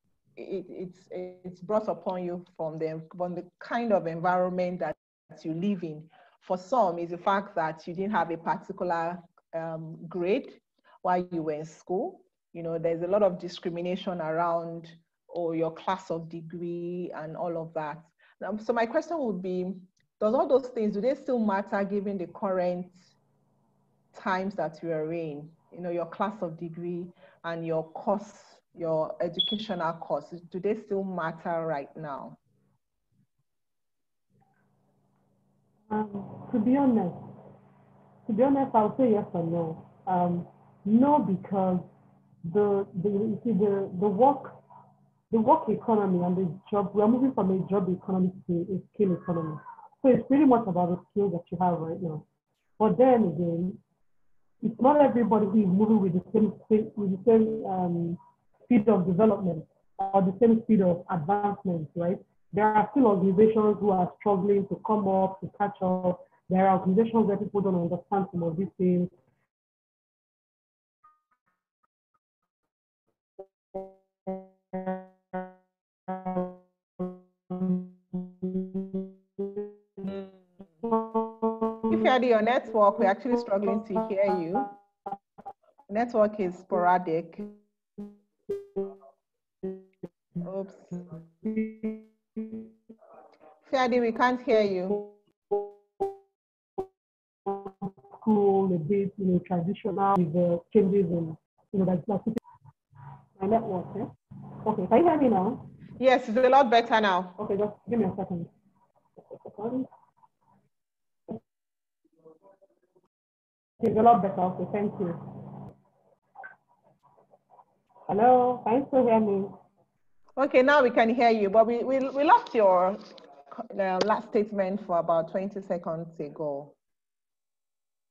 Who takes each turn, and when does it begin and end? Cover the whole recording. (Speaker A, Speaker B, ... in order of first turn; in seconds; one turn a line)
Speaker A: 0.4-23.0
Speaker A: 24.1-32.4
Speaker B: 35.9-37.2
Speaker B: 38.3-41.9
Speaker B: 42.4-44.6
Speaker B: 45.3-52.2
Speaker B: 52.8-53.8
Speaker B: 54.6-69.1
Speaker B: 73.8-75.0
Speaker B: 76.1-80.1
Speaker B: 80.8-82.1
Speaker A: 81.9-84.7
Speaker A: 85.9-87.6
Speaker A: 90.4-91.0
Speaker B: 91.4-92.6
Speaker A: 93.7-95.0
Speaker B: 94.9-96.0
Speaker B: 97.5-102.4
Speaker B: 103.4-104.1
Speaker B: 104.6-105.6
Speaker A: 106.0-107.3
Speaker B: 107.4-108.5
Speaker B: 109.3-109.9
Speaker B: 113.8-115.2
Speaker B: 118.1-119.6
Speaker A: 120.4-123.0
Speaker A: 123.5-126.7